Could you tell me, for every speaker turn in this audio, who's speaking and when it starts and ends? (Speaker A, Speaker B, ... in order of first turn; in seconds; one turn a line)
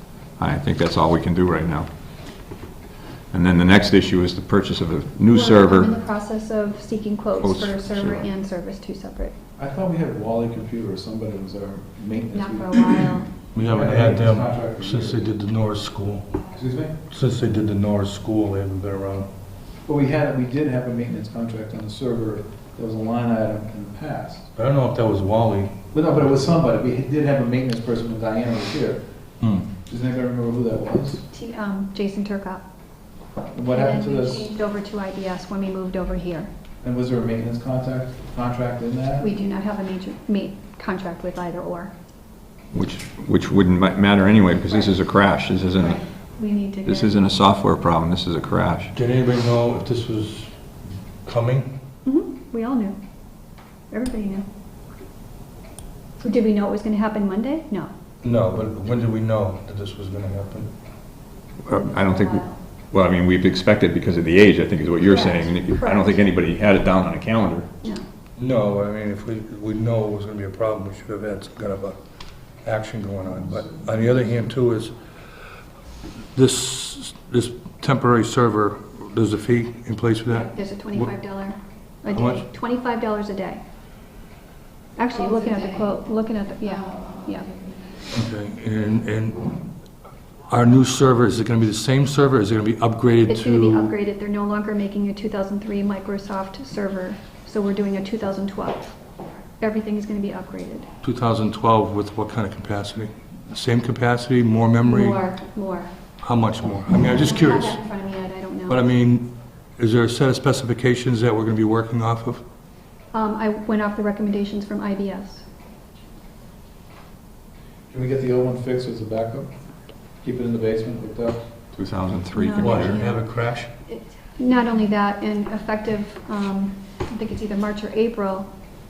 Speaker A: 0.4-1.9
Speaker A: 3.3-5.9
Speaker B: 5.3-9.3
Speaker A: 7.4-8.3
Speaker C: 9.6-15.3
Speaker B: 12.3-13.3
Speaker D: 13.5-16.4
Speaker C: 16.5-17.0
Speaker D: 17.1-19.3
Speaker C: 19.9-24.5
Speaker D: 24.6-25.8
Speaker C: 25.9-29.0
Speaker D: 29.4-29.7
Speaker C: 29.8-31.2
Speaker B: 31.3-32.6
Speaker C: 33.5-34.5
Speaker B: 33.7-36.5
Speaker C: 36.8-39.3
Speaker B: 39.2-41.9
Speaker A: 42.7-46.0
Speaker B: 46.4-47.1
Speaker A: 46.8-48.9
Speaker D: 48.9-50.5
Speaker D: 51.2-51.8
Speaker B: 52.0-53.0
Speaker B: 53.9-54.5
Speaker B: 56.2-57.9
Speaker D: 58.2-60.7
Speaker A: 61.6-67.7
Speaker B: 62.0-62.5
Speaker B: 65.0-66.2
Speaker D: 68.4-72.0
Speaker D: 72.6-74.9
Speaker D: 76.3-81.1
Speaker B: 80.3-83.6
Speaker D: 82.1-82.4
Speaker B: 85.0-87.5
Speaker D: 88.1-89.7
Speaker D: 90.5-93.9
Speaker B: 93.2-98.9
Speaker B: 99.6-100.9
Speaker D: 101.0-105.2
Speaker B: 104.8-105.9
Speaker D: 106.2-107.8
Speaker B: 107.1-108.9
Speaker D: 108.7-112.4
Speaker B: 113.1-115.4
Speaker C: 117.9-119.5
Speaker C: 120.2-121.4
Speaker A: 121.7-123.0
Speaker B: 122.3-123.2
Speaker D: 122.6-123.7
Speaker B: 123.8-128.5